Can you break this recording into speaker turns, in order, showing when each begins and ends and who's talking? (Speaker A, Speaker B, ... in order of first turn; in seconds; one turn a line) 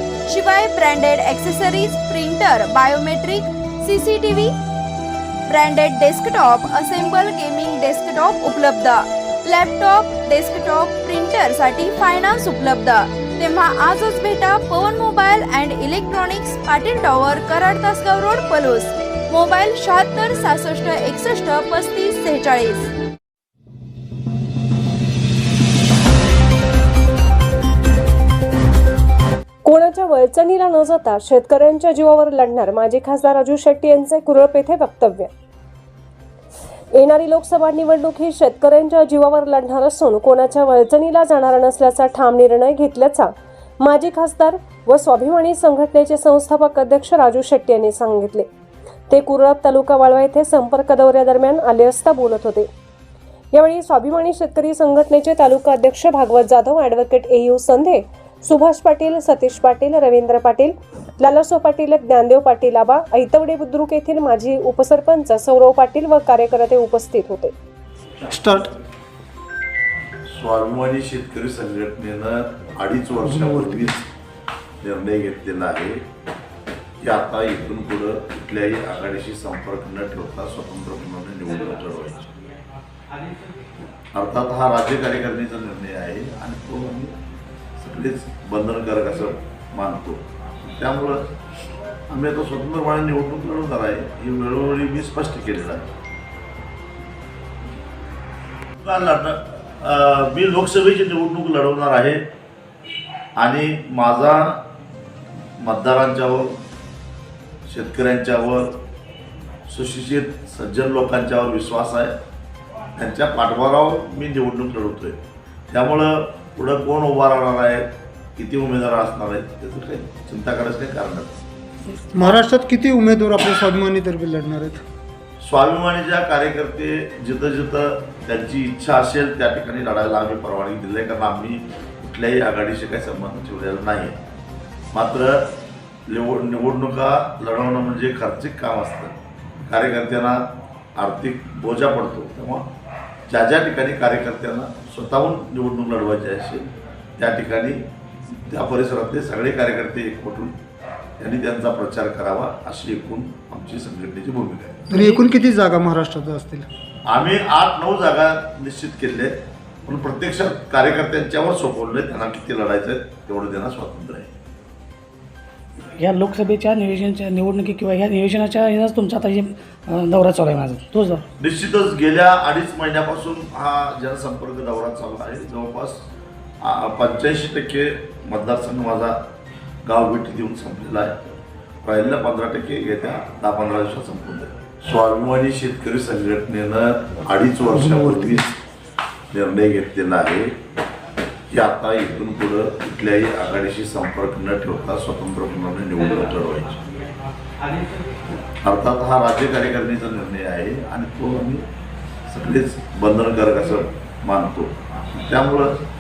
Speaker A: 0.3-4.5
Speaker A: 5.5-22.9
Speaker B: 29.6-35.3
Speaker B: 36.9-48.5
Speaker B: 49.1-52.7
Speaker B: 53.5-67.5
Speaker C: 68.3-68.7
Speaker D: 70.3-74.1
Speaker C: 73.3-73.8
Speaker D: 74.8-76.0
Speaker D: 77.0-82.3
Speaker D: 84.1-87.2
Speaker D: 87.8-91.3
Speaker D: 92.1-95.9
Speaker D: 98.8-102.2
Speaker D: 103.3-104.6
Speaker D: 105.6-106.6
Speaker D: 107.7-108.8
Speaker D: 109.7-112.2
Speaker D: 113.0-115.2
Speaker D: 115.7-121.4
Speaker C: 122.1-124.8
Speaker D: 125.4-134.2
Speaker D: 134.9-135.5
Speaker D: 136.1-142.7
Speaker D: 143.3-150.6
Speaker D: 151.2-154.9
Speaker C: 154.9-156.7
Speaker D: 157.1-164.3
Speaker E: 166.0-171.2
Speaker D: 171.4-176.1
Speaker D: 176.6-179.2
Speaker D: 179.8-188.6
Speaker C: 187.8-188.4
Speaker D: 189.3-190.6
Speaker D: 191.5-196.8
Speaker D: 198.6-201.7
Speaker D: 202.3-205.8